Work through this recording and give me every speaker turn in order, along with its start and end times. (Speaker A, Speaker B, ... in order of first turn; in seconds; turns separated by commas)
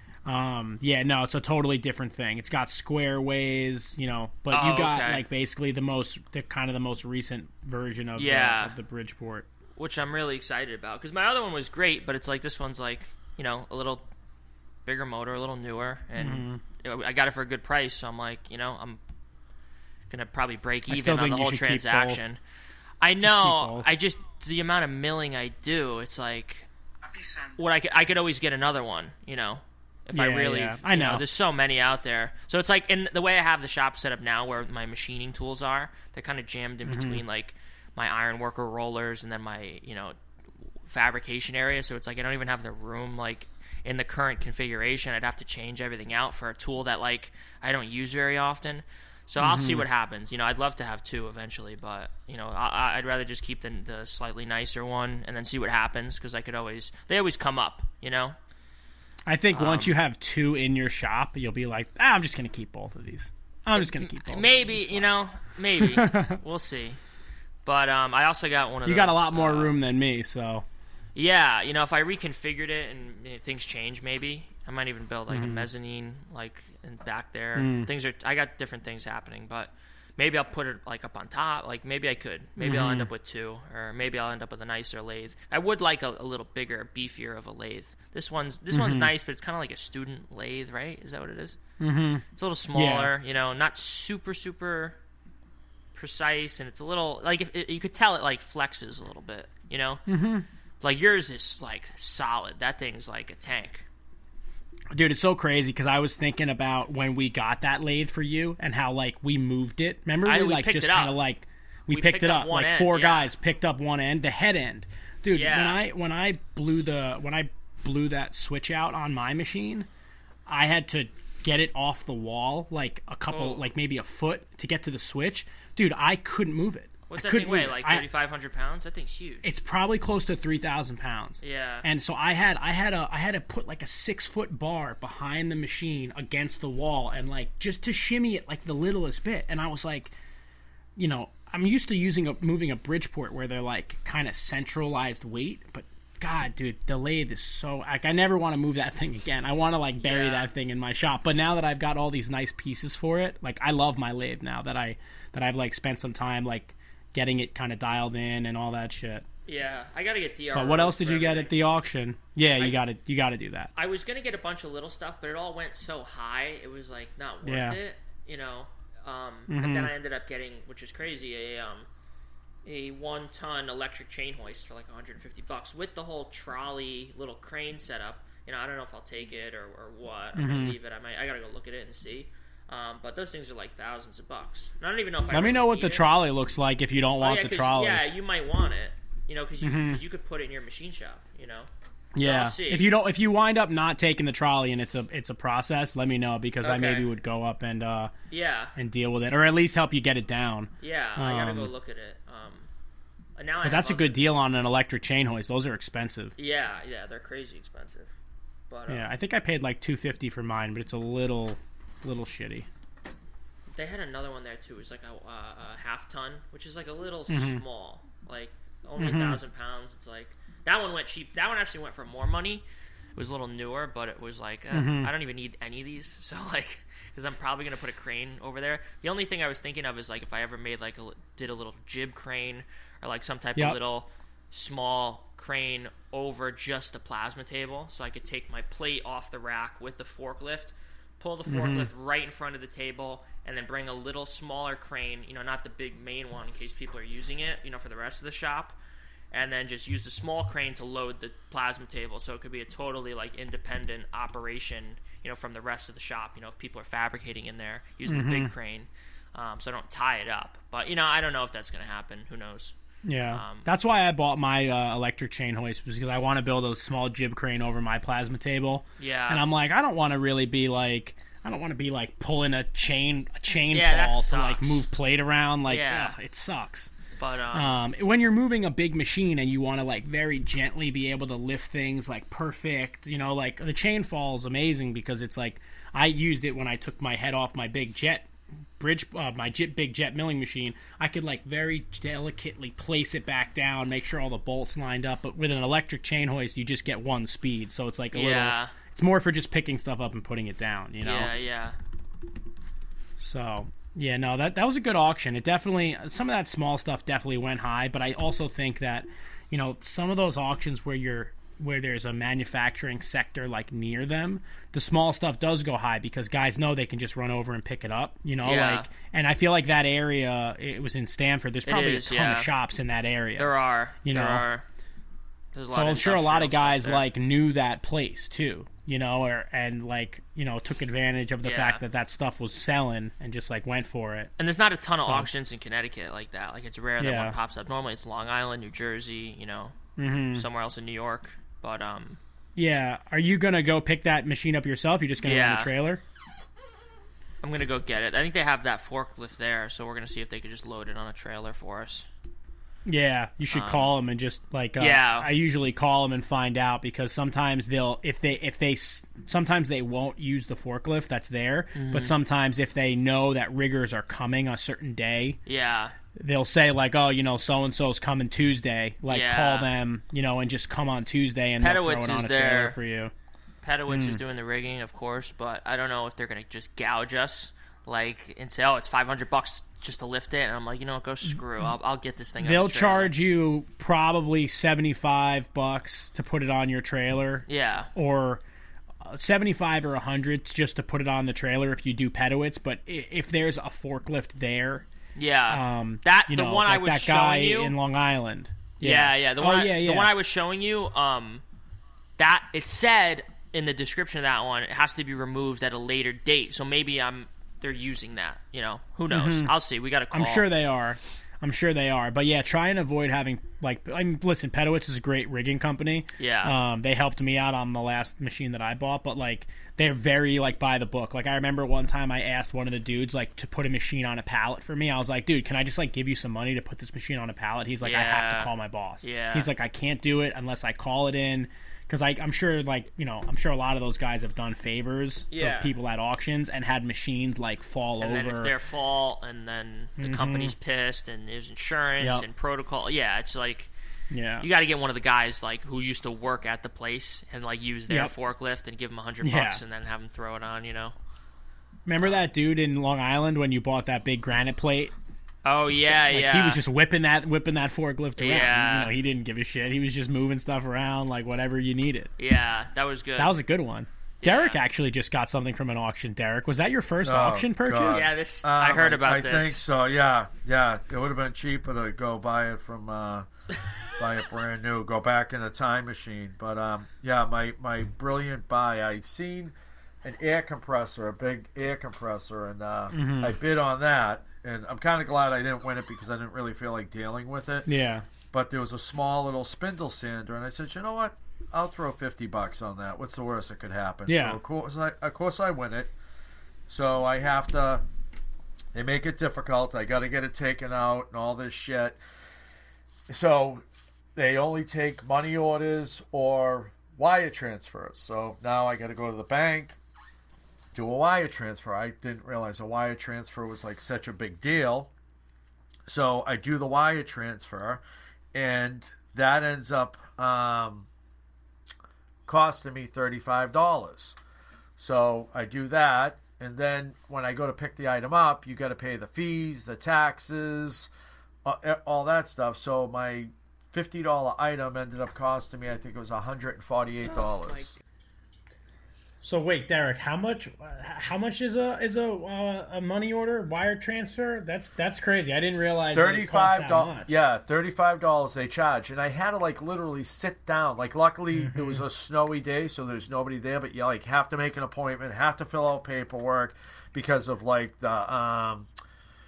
Speaker A: 0.2-9.4, Speaker B: 4.5-5.2, Speaker B: 8.2-8.7, Speaker B: 9.8-14.1, Speaker B: 14.8-19.0, Speaker A: 16.2-16.6, Speaker B: 20.1-22.4, Speaker A: 20.9-22.2, Speaker B: 23.0-26.7, Speaker A: 23.2-23.9, Speaker B: 27.6-40.1, Speaker A: 30.1-31.2, Speaker A: 36.9-37.2, Speaker B: 40.9-58.4, Speaker A: 49.4-49.9, Speaker A: 59.3-65.1, Speaker B: 59.5-59.9, Speaker B: 63.8-67.0, Speaker A: 65.8-66.4, Speaker B: 67.6-69.8, Speaker A: 68.8-70.6, Speaker B: 71.1-91.6, Speaker A: 75.3-75.7, Speaker A: 77.5-77.9, Speaker A: 82.6-83.1, Speaker A: 88.7-89.1, Speaker A: 91.8-93.1, Speaker B: 92.3-95.0, Speaker B: 95.9-100.0, Speaker A: 100.1-100.5, Speaker B: 100.8-103.8, Speaker A: 104.9-119.9, Speaker B: 110.2-111.2, Speaker B: 111.9-113.3, Speaker B: 115.3-115.8, Speaker A: 120.5-128.1, Speaker B: 123.3-123.7, Speaker B: 127.1-129.5, Speaker A: 129.4-140.1, Speaker B: 131.4-131.8, Speaker A: 141.0-159.2, Speaker B: 150.0-150.5, Speaker B: 159.4-161.5, Speaker A: 160.5-163.7, Speaker B: 163.8-171.9, Speaker A: 167.4-167.8, Speaker A: 169.5-169.9, Speaker B: 172.6-186.1, Speaker A: 180.3-180.8, Speaker A: 185.3-188.0, Speaker B: 187.2-191.7, Speaker A: 189.6-190.0, Speaker A: 192.1-198.1, Speaker B: 192.2-192.9, Speaker B: 196.6-197.1, Speaker B: 198.3-198.7, Speaker A: 198.8-201.7, Speaker B: 200.8-202.7, Speaker B: 203.4-204.2, Speaker A: 203.6-206.3, Speaker B: 206.4-208.1, Speaker B: 208.7-209.0, Speaker A: 208.9-212.7, Speaker B: 213.7-222.6, Speaker A: 217.3-217.6, Speaker A: 219.0-219.4, Speaker B: 223.2-248.8, Speaker A: 224.7-225.1, Speaker A: 241.5-241.9, Speaker B: 249.3-262.7, Speaker A: 258.1-258.5, Speaker A: 263.0-276.9, Speaker B: 263.3-263.7, Speaker B: 269.0-269.4, Speaker B: 273.7-274.9, Speaker B: 275.7-276.1, Speaker B: 277.2-277.8, Speaker A: 277.5-301.3, Speaker B: 298.1-298.7, Speaker B: 301.0-301.8, Speaker A: 303.2-323.5, Speaker B: 318.4-318.9, Speaker B: 321.6-322.5, Speaker B: 323.4-324.6, Speaker A: 324.0-324.4, Speaker B: 325.5-327.1, Speaker A: 325.7-334.3, Speaker B: 331.4-331.8, Speaker B: 334.4-339.8, Speaker A: 337.0-337.4, Speaker A: 340.0-340.4, Speaker B: 340.3-342.2, Speaker A: 342.6-346.0, Speaker B: 345.2-345.7, Speaker B: 347.4-352.1, Speaker A: 352.9-365.4, Speaker B: 353.5-353.9, Speaker B: 354.8-355.3, Speaker B: 361.7-362.1, Speaker B: 365.5-365.9, Speaker A: 366.1-373.1, Speaker B: 369.1-369.7, Speaker B: 371.6-372.8, Speaker B: 373.6-383.1, Speaker A: 373.9-374.2, Speaker A: 382.4-388.4, Speaker B: 387.5-387.9, Speaker A: 389.0-394.9, Speaker B: 395.1-397.8, Speaker A: 395.5-400.1, Speaker B: 398.8-401.4, Speaker B: 402.2-410.5, Speaker A: 409.1-409.5, Speaker A: 410.1-438.5, Speaker B: 416.2-416.6, Speaker B: 427.8-428.5, Speaker B: 429.0-429.5, Speaker B: 435.3-435.7, Speaker B: 438.0-443.7, Speaker A: 440.0-440.5, Speaker A: 442.0-442.2, Speaker A: 444.1-444.5, Speaker B: 444.4-450.9, Speaker A: 449.2-449.6, Speaker A: 451.9-454.9, Speaker B: 452.0-452.3, Speaker B: 455.4-456.6, Speaker A: 455.9-462.1, Speaker B: 458.2-458.9, Speaker B: 462.2-463.3, Speaker A: 463.2-468.1, Speaker B: 464.2-464.6, Speaker C: 467.0-473.3, Speaker B: 467.9-469.6, Speaker C: 473.9-487.7, Speaker A: 482.9-483.3, Speaker A: 487.6-488.1, Speaker C: 488.3-495.9, Speaker A: 494.1-494.4, Speaker C: 496.7-497.8, Speaker C: 498.7-502.0, Speaker C: 503.1-503.6, Speaker C: 504.1-509.8, Speaker C: 510.7-514.9, Speaker C: 515.9-517.8, Speaker C: 518.3-520.9, Speaker C: 522.2-524.2, Speaker C: 524.8-530.9, Speaker C: 531.4-537.8, Speaker B: 537.1-537.8, Speaker A: 539.2-547.1, Speaker C: 545.9-558.7, Speaker A: 551.3-551.8